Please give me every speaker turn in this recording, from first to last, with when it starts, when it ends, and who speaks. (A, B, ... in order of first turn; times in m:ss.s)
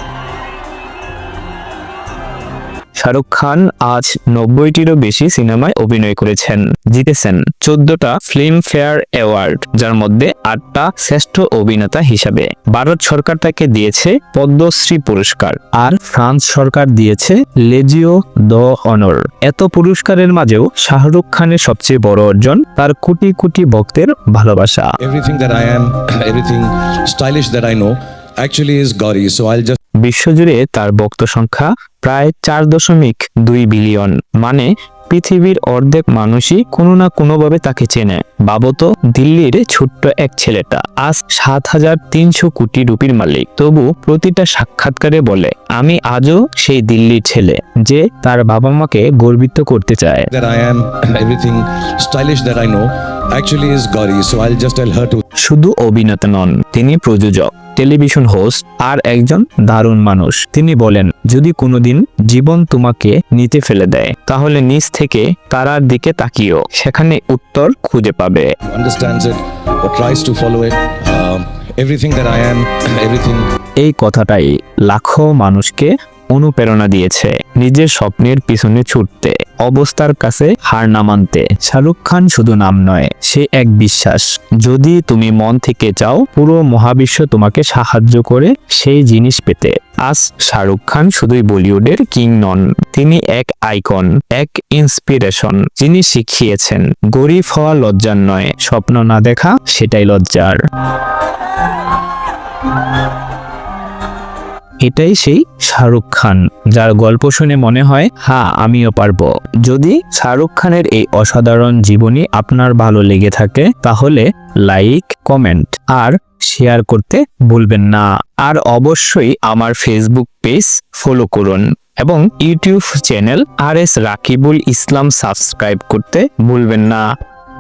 0:03.0-0:24.9 A
0:25.0-0:29.8 B
0:30.0-0:50.3 A
0:50.3-0:55.2 B
0:55.4-1:08.5 A
1:08.7-1:13.4 B
1:13.8-1:40.6 A
1:44.8-2:07.0 A